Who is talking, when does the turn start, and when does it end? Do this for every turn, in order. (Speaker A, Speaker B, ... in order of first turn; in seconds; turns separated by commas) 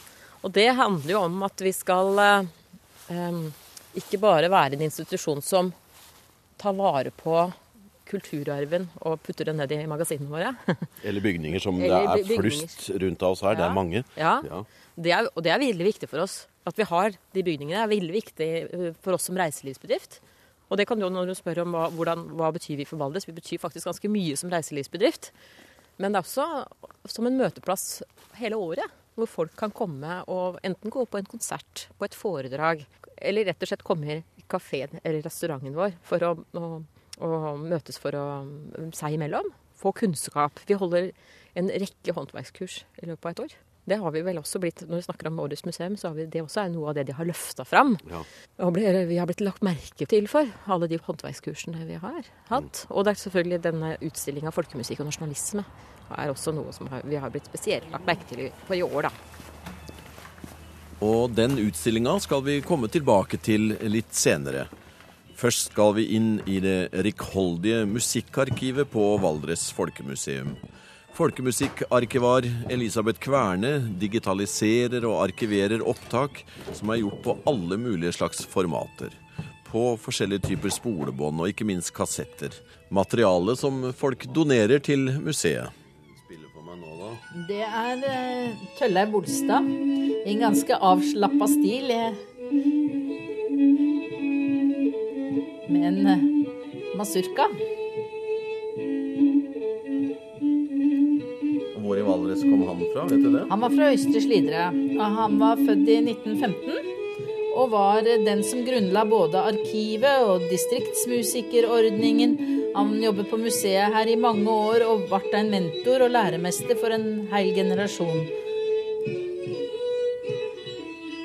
Speaker A: 0.4-2.5, Speaker A: 3.1-5.7, Speaker A: 6.6-10.9, Speaker B: 11.0-14.7, Speaker A: 11.8-12.8, Speaker A: 13.5-25.3, Speaker A: 26.0-48.0, Speaker A: 48.6-59.1, Speaker B: 61.0-64.7, Speaker B: 65.3-70.6, Speaker B: 71.1-87.2, Speaker C: 87.3-89.7, Speaker C: 90.2-92.2, Speaker C: 95.7-96.3, Speaker C: 96.9-97.5, Speaker B: 101.7-103.5, Speaker C: 103.5-106.8, Speaker C: 107.5-118.3